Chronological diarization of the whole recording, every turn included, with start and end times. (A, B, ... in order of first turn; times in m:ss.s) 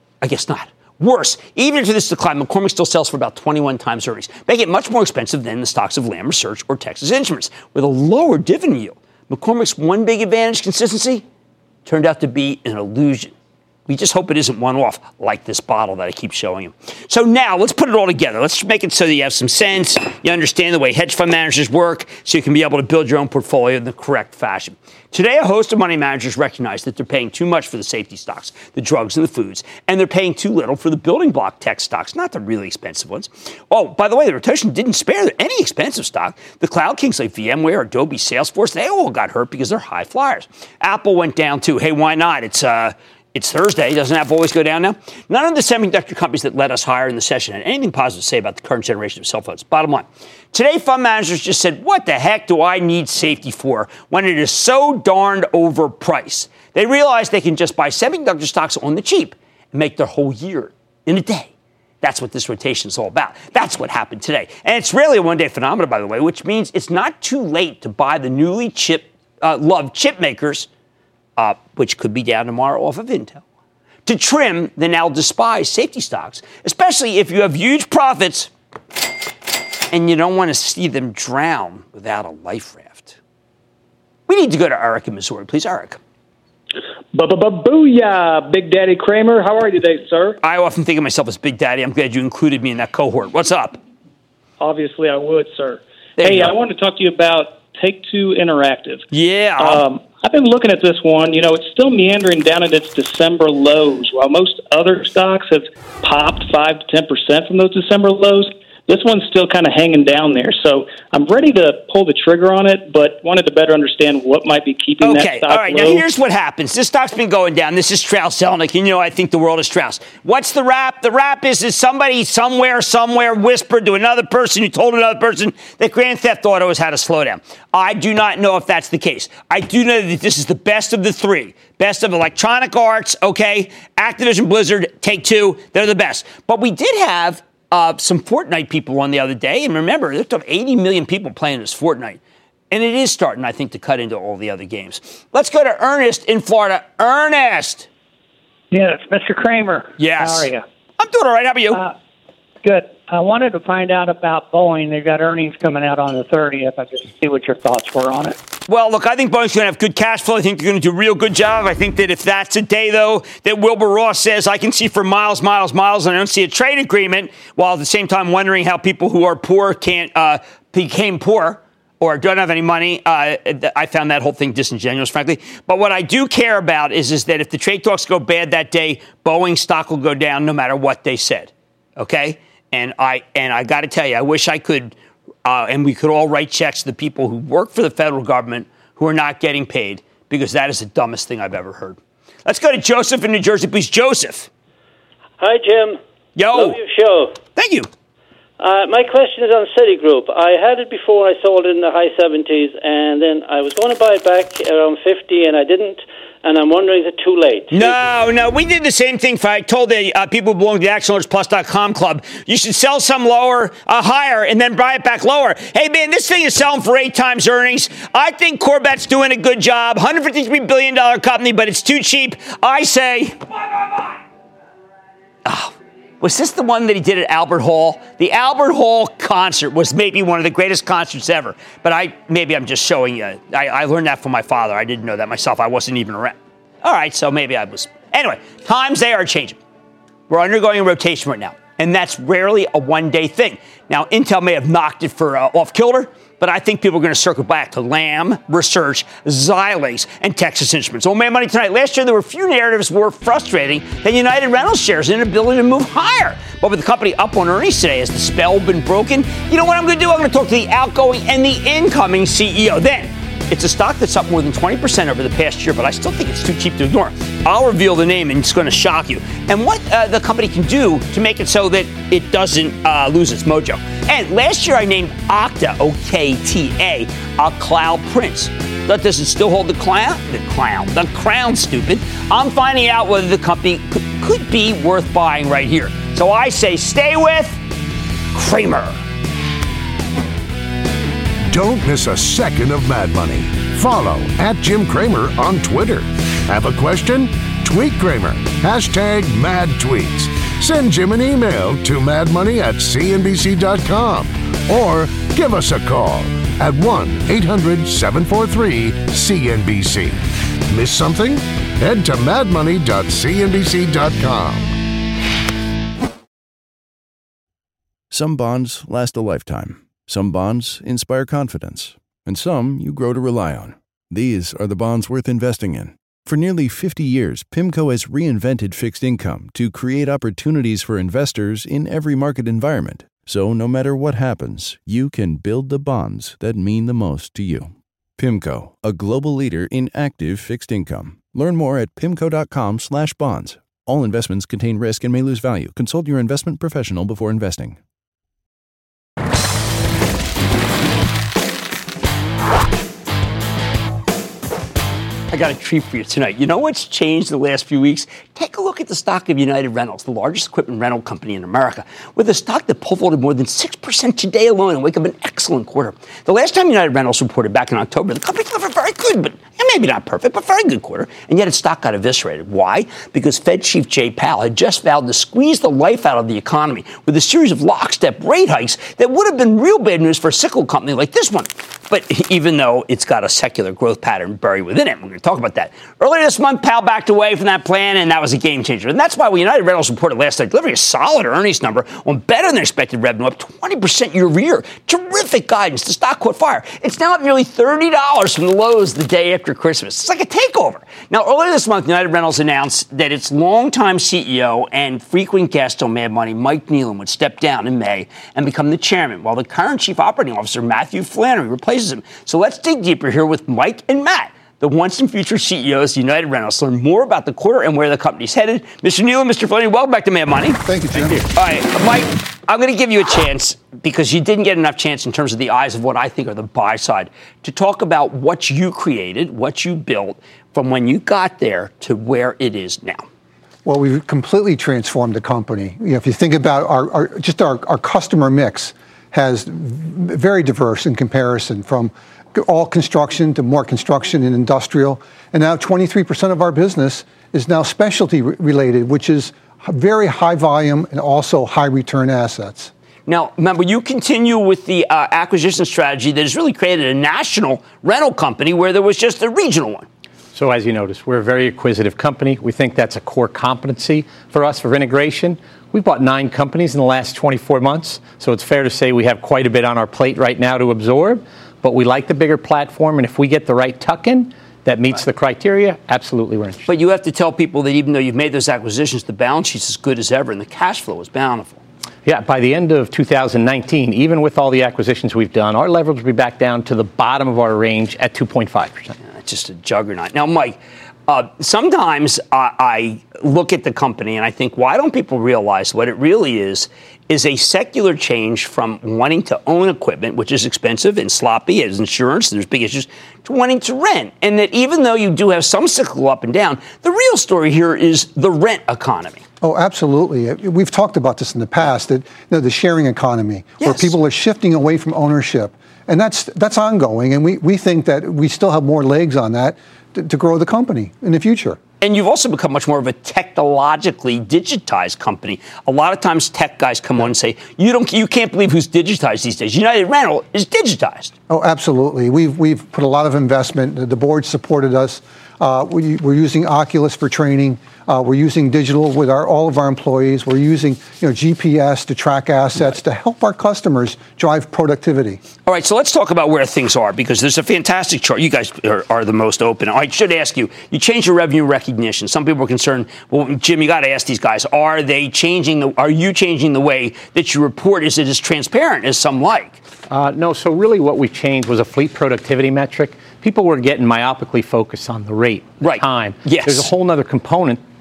0:00.2-0:11.2 A
0:11.8-0:13.3 A
0:13.9-1:01.5 A
1:02.0-1:10.7 A
1:11.4-1:13.4 A
1:14.0-1:18.5 A
1:19.9-1:23.2 A
1:24.3-1:26.0 A
1:27.1-1:30.4 B
1:30.4-1:33.8 A
1:34.6-1:39.0 B
1:36.2-1:36.5 A
1:39.1-1:39.8 A
1:39.6-1:56.0 B
1:55.0-2:22.2 A
2:22.7-2:27.9 A
2:28.7-2:30.6 C
2:30.0-2:30.5 A
2:31.0-2:31.8 A
2:32.6-2:38.4 C
2:38.7-3:04.9 A
3:05.4-3:14.5 A
3:15.4-3:16.0 D
3:16.4-3:16.8 A
3:16.5-3:17.4 D
3:17.6-3:17.9 A
3:18.6-3:28.0 D
3:27.7-3:44.2 A
3:45.4-3:59.6 A
4:00.3-4:47.6 A
4:48.3-4:49.0 A
4:51.5-5:14.7 E
5:18.1-5:47.8 F
5:55.3-7:00.6 A
7:00.6-7:01.2 G
7:01.3-7:13.0 A
7:13.6-7:32.7 G
7:33.1-7:39.9 A
7:40.3-7:56.7 H
7:56.7-8:01.6 A
8:02.0-8:08.9 H
8:09.1-8:29.2 A
8:29.4-8:41.6 G
8:33.6-8:33.9 A
8:41.8-8:51.1 A
8:51.3-9:05.2 G
9:05.4-9:19.6 A
9:19.9-9:27.6 H
9:25.6-9:26.7 A